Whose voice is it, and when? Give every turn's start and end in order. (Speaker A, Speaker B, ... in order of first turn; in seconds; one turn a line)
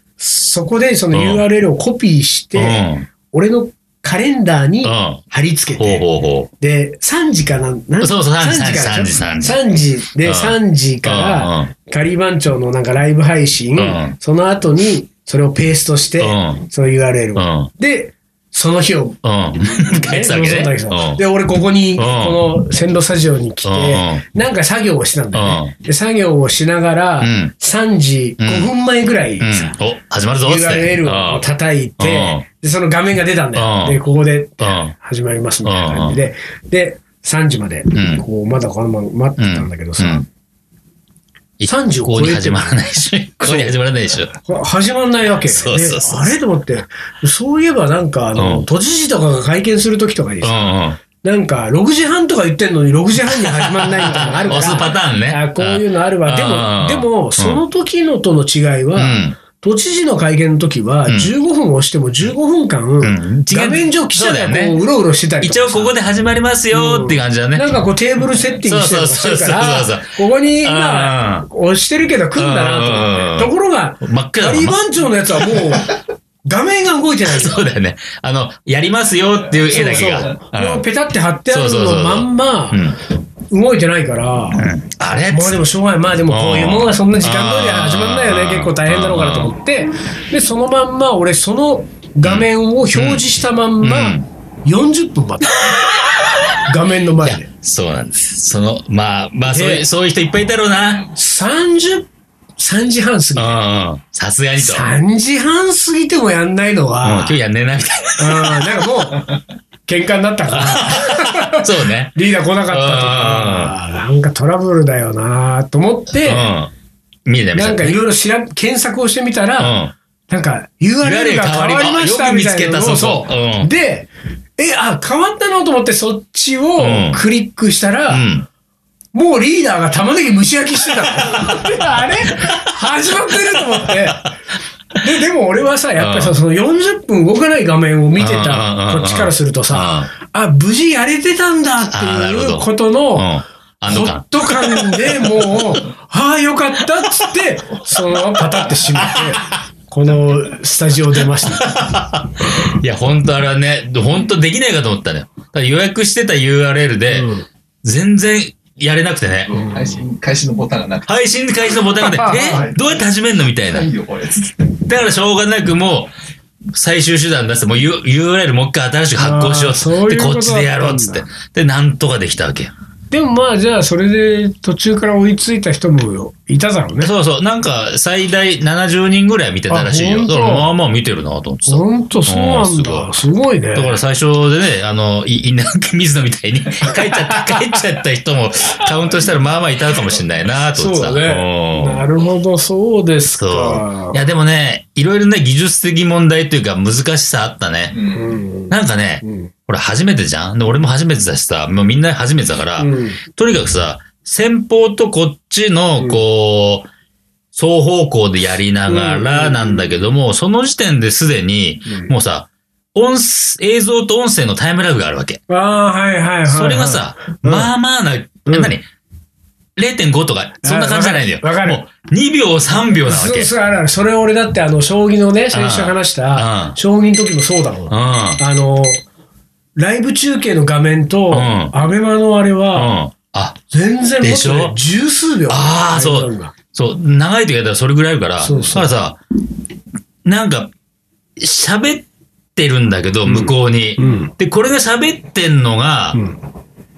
Speaker A: 0.2-6.0
Speaker B: 1.1-1.4
Speaker B: 2.6-3.1
Speaker B: 4.8-5.2
Speaker B: 5.8-6.5
Speaker A: 6.6-19.2
Speaker B: 8.0-9.6
Speaker B: 10.2-11.7
Speaker B: 13.8-14.2
Speaker B: 16.2-16.6
Speaker B: 17.4-17.7
Speaker B: 19.2-21.2
Speaker A: 19.8-29.8
Speaker B: 22.0-22.4
Speaker B: 23.6-24.2
Speaker B: 25.3-25.7
Speaker B: 27.2-27.5
Speaker B: 28.4-28.7
Speaker B: 29.4-31.5
Speaker A: 30.4-40.2
Speaker B: 32.0-32.5
Speaker B: 33.5-34.0
Speaker B: 34.6-34.9
Speaker B: 35.6-36.2
Speaker B: 37.9-38.2
Speaker B: 39.4-40.3
Speaker B: 41.6-44.4
Speaker A: 41.7-42.8
Speaker A: 43.4-43.8
Speaker A: 44.4-65.9
Speaker B: 45.5-46.4
Speaker B: 48.4-48.7
Speaker B: 50.4-51.0
Speaker B: 53.3-57.6
Speaker B: 59.0-59.4
Speaker B: 63.0-64.8
Speaker B: 65.4-67.7
Speaker A: 66.7-77.6
Speaker B: 68.6-71.5
Speaker B: 72.4-74.8
Speaker B: 77.2-80.9
Speaker C: 79.5-80.4
Speaker A: 79.7-83.0
Speaker B: 81.5-83.0
Speaker A: 83.5-84.7
Speaker B: 84.5-85.7
Speaker A: 85.3-95.8
Speaker B: 86.3-89.5
Speaker B: 92.2-93.3
Speaker B: 93.8-94.3
Speaker A: 96.6-97.5
Speaker B: 97.2-101.1
Speaker A: 99.5-99.9
Speaker A: 101.2-103.6
Speaker B: 103.4-104.9
Speaker A: 104.6-107.4
Speaker B: 107.0-108.8
Speaker A: 108.2-109.3
Speaker A: 109.9-116.5
Speaker B: 110.5-112.2
Speaker B: 112.7-113.7
Speaker B: 116.2-116.7
Speaker B: 117.2-118.0
Speaker A: 117.5-119.8
Speaker B: 119.6-119.9
Speaker A: 120.3-128.3
Speaker B: 121.0-123.7
Speaker B: 126.8-127.2
Speaker B: 128.1-128.5
Speaker A: 129.1-134.3
Speaker B: 131.2-131.8
Speaker A: 135.0-143.3
Speaker B: 136.0-136.4
Speaker B: 138.2-140.1
Speaker B: 141.9-145.6
Speaker A: 143.8-151.8
Speaker B: 148.9-149.6
Speaker B: 151.4-157.3
Speaker A: 157.1-157.5
Speaker B: 157.8-159.5
Speaker C: 159.5-161.2
Speaker B: 161.1-163.9
Speaker C: 161.8-163.0
Speaker A: 162.2-162.7
Speaker C: 163.6-164.8
Speaker B: 164.9-166.1
Speaker B: 166.7-172.7
Speaker A: 169.2-171.2
Speaker A: 173.1-177.1
Speaker B: 177.0-183.1
Speaker A: 179.7-180.7
Speaker A: 181.7-184.0
Speaker B: 183.8-192.1
Speaker A: 190.8-194.2
Speaker B: 193.4-198.0
Speaker C: 197.9-198.4
Speaker A: 198.1-199.5
Speaker B: 198.7-206.9
Speaker A: 202.8-203.2
Speaker B: 207.5-215.4
Speaker A: 208.9-209.9
Speaker A: 215.5-217.7
Speaker B: 216.5-218.9
Speaker A: 218.5-218.8
Speaker B: 219.8-223.5
Speaker A: 220.6-221.8
Speaker A: 222.9-229.0
Speaker B: 225.5-226.8
Speaker B: 227.9-228.4
Speaker A: 229.8-232.9
Speaker B: 231.3-231.7
Speaker B: 232.7-233.6
Speaker A: 233.7-236.5
Speaker B: 234.2-234.8
Speaker B: 235.5-239.2
Speaker A: 238.4-238.9
Speaker B: 240.2-240.7
Speaker B: 241.4-246.2
Speaker A: 243.2-244.3
Speaker A: 246.1-246.4